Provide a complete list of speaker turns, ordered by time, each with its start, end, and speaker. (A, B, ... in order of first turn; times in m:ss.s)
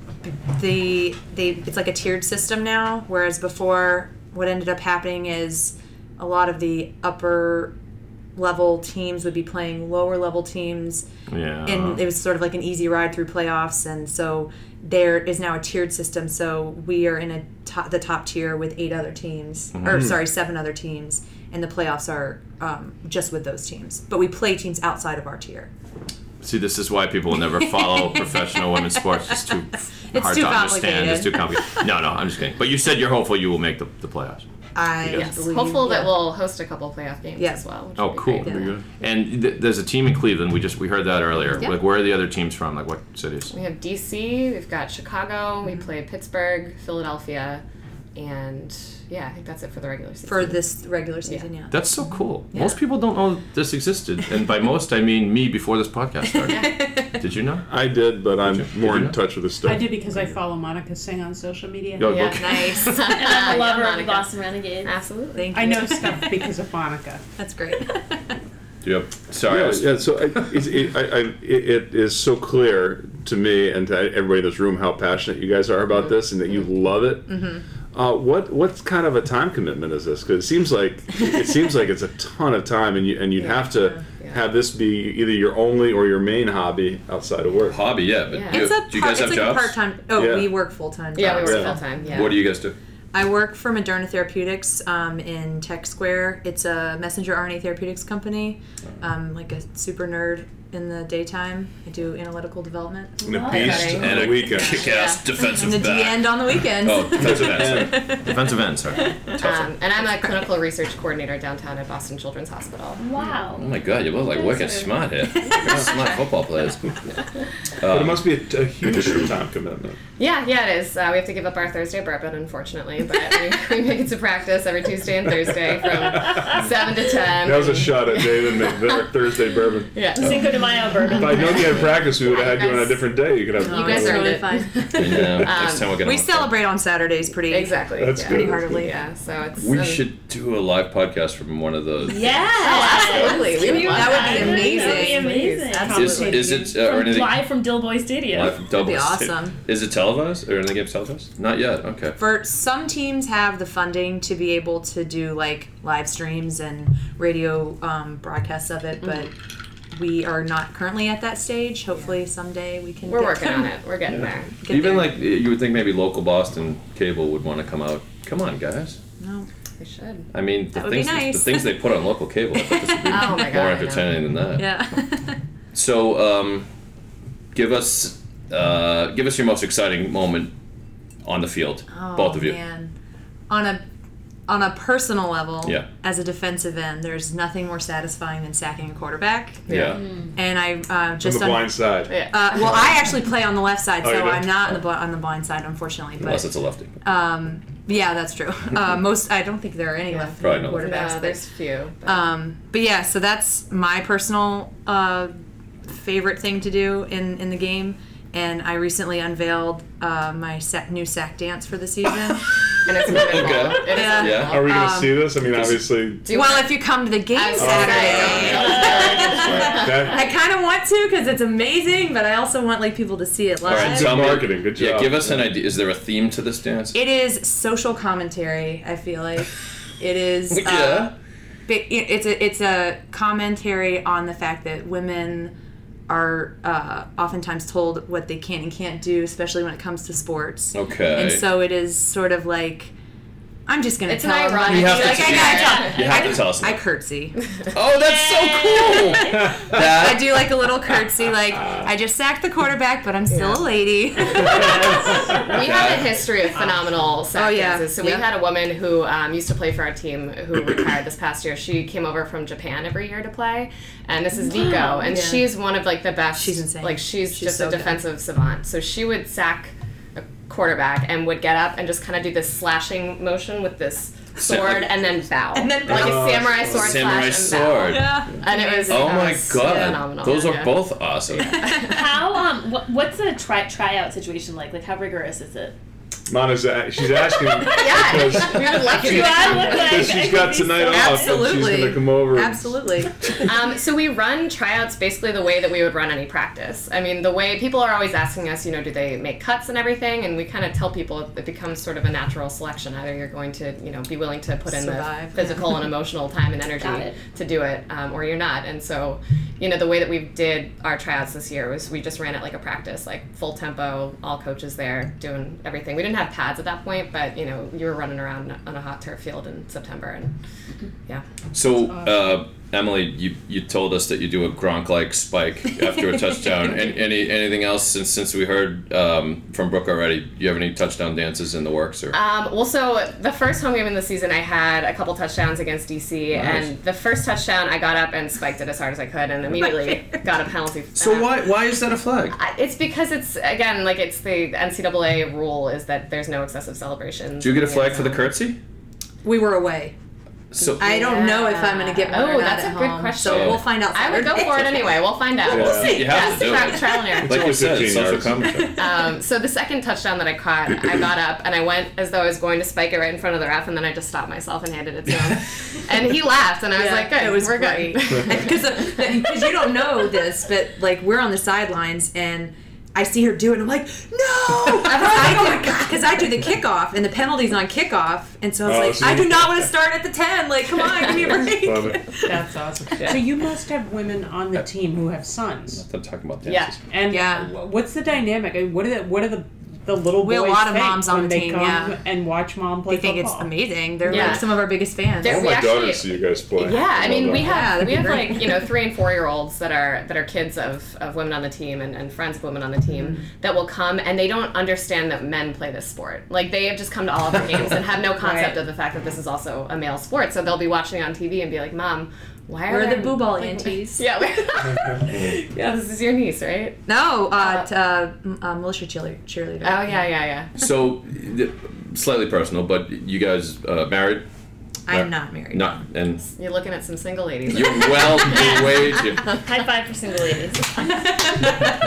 0:00.2-0:07.7 A
0:08.4-0:11.1 A
0:11.3-0:12.0 B
0:11.6-0:25.7 A
0:19.7-0:20.1 B
0:19.9-0:20.2 C
0:26.4-0:34.4 B
0:27.6-0:29.4 A
0:30.1-0:31.6 A
0:34.8-0:36.2 A
0:35.0-0:35.3 B
0:35.1-0:38.7 D
0:38.0-0:43.5 B
0:38.4-0:38.8 A
0:38.4-0:38.8 C
0:43.5-0:47.6 D
0:48.2-0:50.6 D
0:50.2-0:51.9 A
0:51.7-0:57.7 B
0:52.5-0:52.8 A
0:56.3-0:57.2 A
0:56.5-0:56.8 D
0:57.7-1:00.4 C
0:58.4-0:59.2 B
0:59.6-1:02.3 E
1:02.0-1:02.8 C
1:02.0-1:04.3 D
1:02.4-1:03.2 A
1:03.1-1:04.9 F
1:04.8-1:05.5 D
1:05.4-1:06.5 A
1:05.5-1:07.2 E
1:07.4-1:08.3 A
1:08.8-1:10.4 B
1:09.4-1:27.8 C
1:17.3-1:17.6 A
1:23.4-1:24.4 D
1:27.7-1:29.8 B
1:28.3-1:28.7 D
1:28.5-1:32.4 A
1:30.2-1:30.6 C
1:31.2-1:32.4 D
1:31.3-1:31.8 C
1:32.1-1:32.8 B
1:33.1-1:44.0 A
1:43.2-1:43.9 F
1:43.2-1:45.0 C
1:43.5-1:45.2 D
1:43.8-1:49.7 B
1:44.6-1:48.6 A
1:47.1-1:48.2 C
1:49.4-1:53.0 D
1:53.0-1:55.0 F
1:53.6-1:57.0 B
1:55.4-1:56.0 A
1:57.8-1:58.2 B
1:57.8-2:00.0 C
2:00.2-2:10.5 D
2:06.3-2:06.6 C
2:07.4-2:10.0 C
2:10.2-2:11.7 F
2:11.1-2:16.0 D
2:11.2-2:14.4 C
2:13.6-2:15.4 A
2:15.0-2:16.5 B
2:16.0-2:18.9 A
2:17.5-2:20.0 D
2:18.0-2:18.8 C
2:19.6-2:22.3 B
2:22.1-2:28.6 F
2:22.2-2:26.4 D
2:22.6-2:25.4 A
2:25.8-2:26.8 E
2:25.9-2:27.4 B
2:28.3-2:32.2 B
2:28.7-2:29.6 A
2:32.2-2:39.3 A
2:39.9-2:43.7 A
2:43.1-2:44.6 D
2:44.6-2:45.2 A
2:44.7-2:49.0 B
2:49.2-2:49.5 A
2:49.8-2:50.3 D
2:50.3-2:54.8 B
2:50.7-2:51.9 A
2:52.5-2:53.5 A
2:53.1-2:54.2 D
2:54.6-2:55.4 A
2:55.7-2:56.7 B
2:57.5-3:00.5 B
3:01.2-3:02.6 B
3:01.9-3:02.9 A
3:03.5-3:03.8 A
3:04.5-3:16.5 A
3:09.7-3:10.0 B
3:09.7-3:10.0 D
3:10.0-3:10.3 F
3:11.2-3:12.8 C
3:12.1-3:12.8 D
3:14.0-3:14.7 C
3:16.2-3:16.9 B
3:17.0-3:21.4 A
3:20.1-3:22.3 D
3:20.4-3:20.9 B
3:22.0-3:35.4 A
3:32.8-3:34.9 D
3:33.1-3:34.6 B
3:34.4-3:36.3 C
3:35.5-3:35.9 B
3:36.2-3:40.1 D
3:36.3-3:44.3 A
3:37.6-3:40.2 C
3:38.7-3:39.2 F
3:43.6-3:47.0 B
3:43.7-3:45.5 C
3:46.9-3:51.1 A
3:50.5-3:51.1 B
3:51.7-3:55.5 A
3:56.1-4:02.9 A
4:00.7-4:01.4 B
4:03.7-4:07.4 A
4:04.1-4:06.2 D
4:04.5-4:06.8 B
4:05.2-4:06.3 F
4:07.7-4:10.6 B
4:08.0-4:09.5 F
4:09.7-4:15.2 A
4:13.3-4:13.7 D
4:14.3-4:40.8 D
4:15.4-4:16.2 B
4:17.3-4:18.3 A
4:24.5-4:25.5 A
4:26.3-4:28.0 A
4:34.4-4:35.0 B
4:35.5-4:36.7 A
4:35.9-4:37.2 C
4:36.6-4:38.2 B
4:37.8-4:39.8 A
4:38.9-4:41.7 B
4:41.3-4:42.0 A
4:41.8-4:45.8 F
4:46.3-4:52.6 C
4:47.6-4:51.5 F
4:47.7-4:50.2 D
4:50.9-4:53.1 A
4:53.4-5:20.3 D
5:04.7-5:05.8 A
5:06.8-5:07.2 F
5:21.5-5:32.2 B
5:26.1-5:26.4 A
5:32.1-5:41.3 D
5:36.4-5:36.7 B
5:39.6-5:40.1 A
5:41.0-5:42.4 B
5:42.3-5:48.3 D
5:47.4-5:48.6 B
5:49.2-5:50.0 A
5:50.5-5:51.0 B
5:50.6-5:57.4 D
5:50.8-5:55.0 A
5:53.2-5:53.6 B
5:55.4-5:58.8 B
5:55.5-5:56.1 C
5:57.2-5:58.7 C
5:58.4-5:59.1 A
5:58.7-6:09.2 D
6:06.7-6:22.4 A
6:18.6-6:19.6 C
6:21.4-6:22.1 C
6:22.2-6:23.3 D
6:23.0-6:25.8 E
6:25.7-6:26.8 B
6:26.4-6:26.8 D
6:26.9-6:33.6 E
6:27.1-6:27.5 A
6:30.2-6:32.0 A
6:32.9-6:35.6 A
6:34.0-6:34.6 D
6:35.2-6:56.8 D
6:35.2-6:37.9 C
6:37.0-6:38.7 A
6:48.2-6:48.6 A
6:52.7-6:54.0 A
6:53.4-6:53.9 F
6:56.9-7:00.1 A
6:57.4-6:57.7 D
6:59.6-7:00.5 D
7:00.6-7:04.3 B
7:04.9-7:05.8 A
7:04.9-7:06.2 B
7:06.3-7:08.9 D
7:07.5-7:09.3 B
7:08.4-7:08.7 F
7:09.3-7:11.4 F